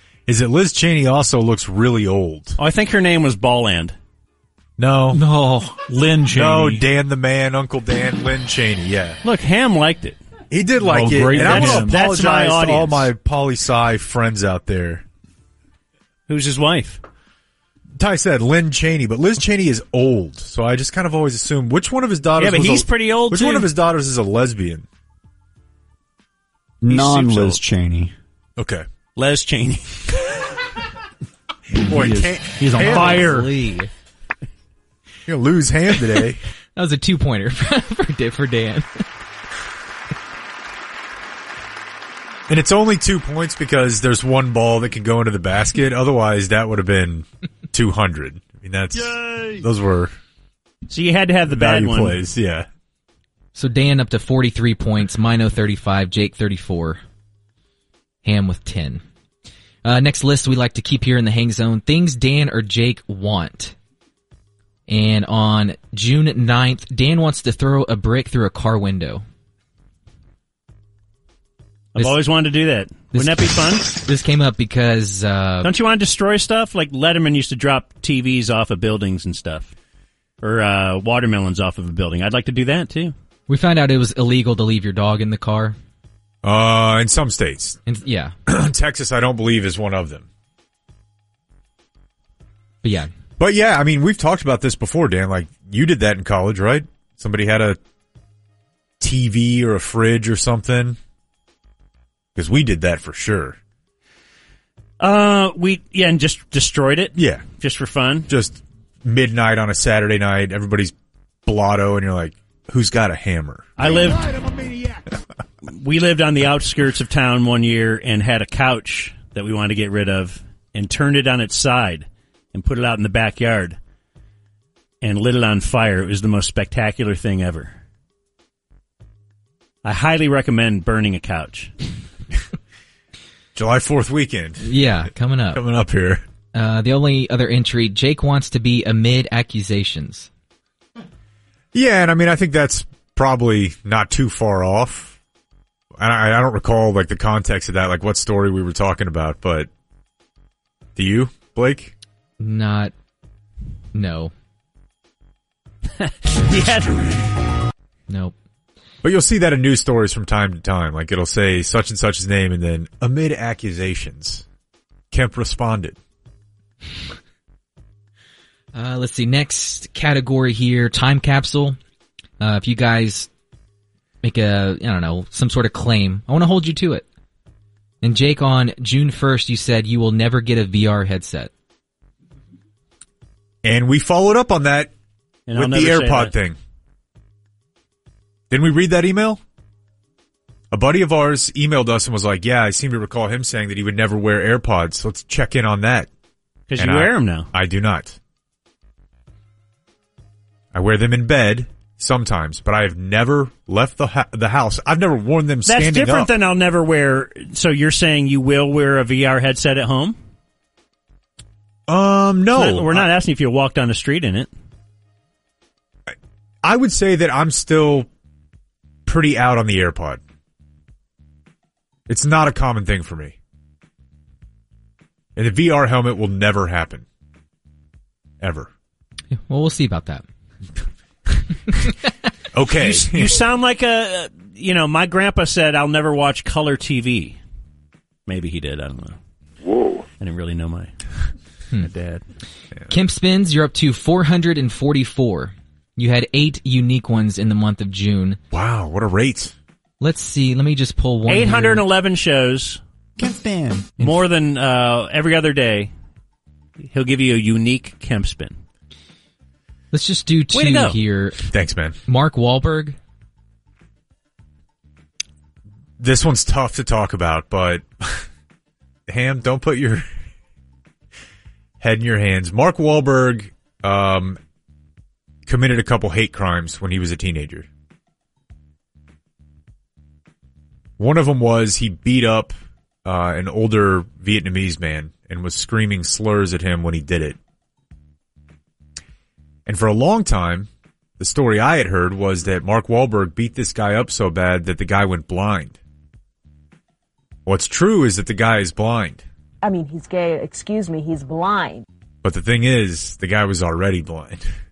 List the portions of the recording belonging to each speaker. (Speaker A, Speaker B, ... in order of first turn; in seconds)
Speaker A: 0.3-2.6, 4.8-5.2, 6.3-9.2, 10.5-15.0, 18.0-24.9, 28.6-28.9, 31.8-33.2, 35.3-36.4, 42.5-50.1, 51.5-52.7, 86.4-87.8, 88.5-90.3, 93.4-97.8, 99.0-101.0, 102.4-103.6, 107.2-107.5, 108.3-110.9, 111.5-113.9, 133.6-134.7, 135.5-136.2, 141.7-145.2, 146.0-149.7, 151.0-151.9, 159.0-164.5, 165.1-166.0, 183.6-184.9, 185.6-186.6, 188.5-189.4, 190.7-196.1, 196.8-198.2, 200.7-206.3, 211.9-213.1, 216.6-218.1, 219.1-220.2, 222.1-223.4, 225.4-227.1, 228.4-228.7, 232.5-233.4, 248.5-249.6, 261.4-262.0, 266.0-268.3, 269.1-270.0, 271.8-274.4, 275.5-277.7, 281.0-282.5, 283.1-287.4, 289.7-295.8, 297.5-299.2, 302.2-304.4
Speaker B: 2.6-4.0, 9.2-10.2, 11.3-13.1, 16.3-17.0, 22.4-23.7, 26.9-27.6, 29.2-30.0, 32.6-33.5, 50.9-52.2, 72.0-73.9, 75.6-79.7, 80.4-83.1, 105.0-108.3, 113.8-114.3, 115.6-123.8, 125.0-127.8, 129.8-131.7, 156.0-157.2, 185.5-186.3, 196.7-197.5, 205.7-210.2, 212.5-214.5, 232.7-237.4, 238.3-239.2, 240.2-240.9, 241.8-242.2, 251.3-252.8, 254.0-255.9, 256.8-258.6, 260.5-261.0
Speaker C: 5.1-6.8, 10.8-12.0
Speaker D: 26.8-28.1, 253.2-254.0
Speaker E: 32.7-33.9, 36.8-39.0, 53.5-57.0, 58.2-59.0, 59.8-63.7, 64.9-69.2, 73.1-75.7, 83.5-85.8, 87.9-88.3, 92.8-93.1, 134.6-135.6, 136.5-140.3, 152.4-152.9, 153.9-154.3, 158.1-158.3, 168.7-171.8, 172.4-173.3, 174.2-177.1, 178.0-181.5, 229.3-230.2, 242.9-248.4, 250.0-251.8, 259.9-261.4, 262.1-263.0
Speaker F: 299.7-301.9